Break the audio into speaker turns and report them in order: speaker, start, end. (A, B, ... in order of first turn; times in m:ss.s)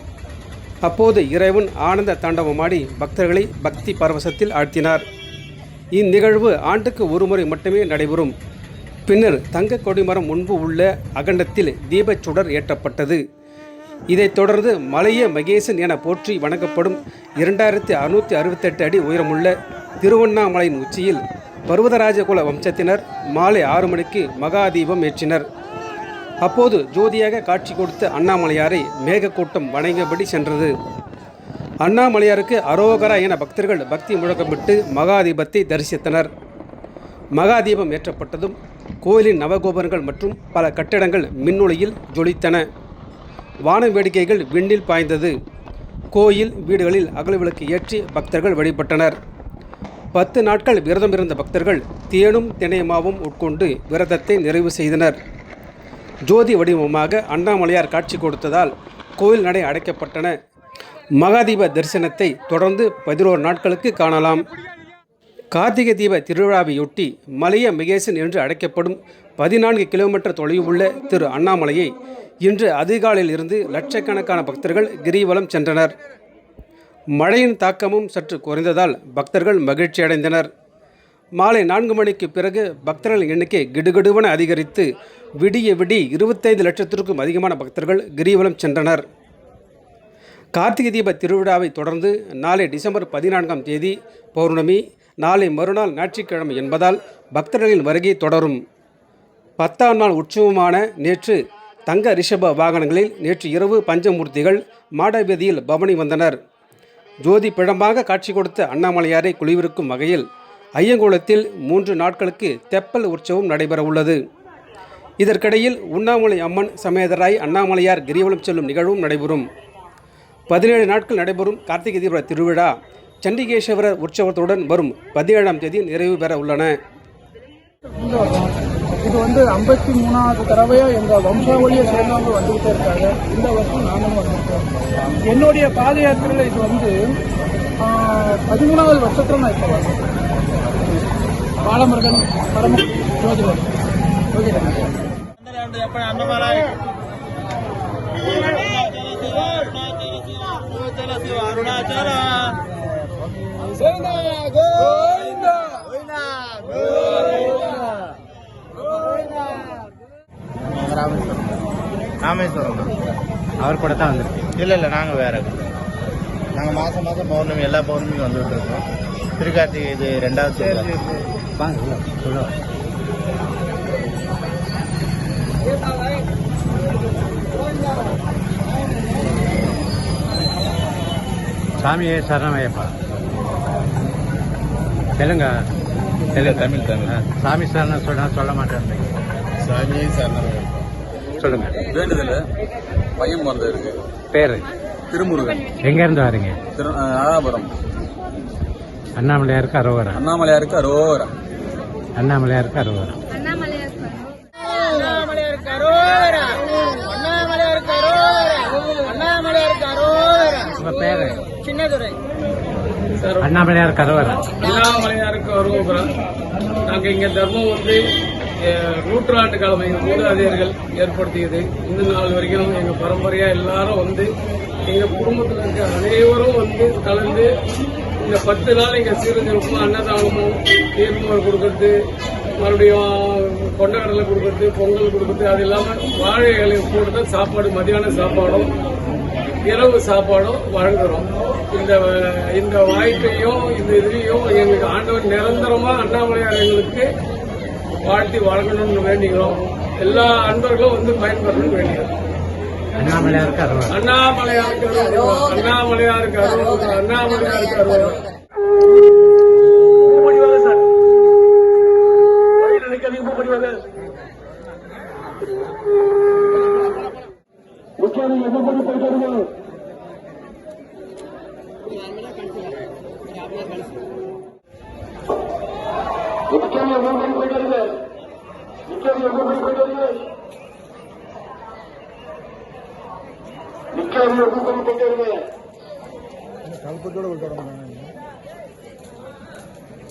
0:00.8-0:05.0 A
0:06.0-0:08.3 A
0:09.1-0:13.2 A
0:14.1-0:25.4 A
0:26.4-0:30.7 A
0:31.8-0:36.3 A
0:37.4-0:42.6 A
0:43.7-0:45.3 A
0:46.1-0:49.1 A
0:50.1-0:55.2 A
0:56.3-1:00.3 A
1:01.2-1:04.4 A
1:05.5-1:11.9 A
1:12.4-1:15.9 A
1:17.2-1:20.5 A
1:21.4-1:24.9 A
1:25.4-1:29.0 A
1:30.6-1:38.6 A
1:39.6-1:46.4 A
1:47.2-1:50.2 A
1:50.8-1:54.2 A
1:55.2-1:59.4 A
2:00.5-2:06.8 A
2:08.0-2:14.7 B
2:15.2-2:17.2 B
2:17.8-2:20.0 B
2:21.6-2:23.7 B
2:24.3-2:24.9 B
2:25.5-2:26.7 C
2:28.5-2:32.6 C
2:34.0-2:34.7 C
2:40.6-2:41.6 C
2:42.2-2:42.9 C
2:43.6-2:44.4 D
2:44.6-2:45.7 C
2:46.5-2:48.8 C
2:49.4-2:51.2 C
2:51.6-2:52.5 D
3:01.8-3:03.0 D
3:05.2-3:05.6 D
3:06.3-3:09.2 D
3:06.4-3:07.1 C
3:09.7-3:10.7 C
3:10.1-3:10.5 E
3:11.3-3:11.9 D
3:11.9-3:12.5 E
3:13.2-3:14.1 E
3:14.3-3:14.6 D
3:15.1-3:15.7 E
3:15.7-3:16.6 D
3:16.7-3:17.8 E
3:19.2-3:20.2 D
3:20.2-3:21.3 E
3:22.2-3:23.6 D
3:24.9-3:25.6 F
3:27.1-3:30.2 F
3:30.6-3:31.4 D
3:33.1-3:33.5 F
3:33.4-3:34.6 D
3:34.5-3:36.2 F
3:36.8-3:38.0 F
3:38.6-3:44.3 F
3:44.9-3:47.5 F
3:48.2-3:51.9 F
3:52.6-3:58.7 F
3:59.7-4:07.1 F
4:08.0-4:12.1 F
4:13.0-4:14.0 D
4:13.9-4:18.2 F
4:20.0-4:20.8 F
4:22.6-4:23.8 F
4:28.2-4:29.1 F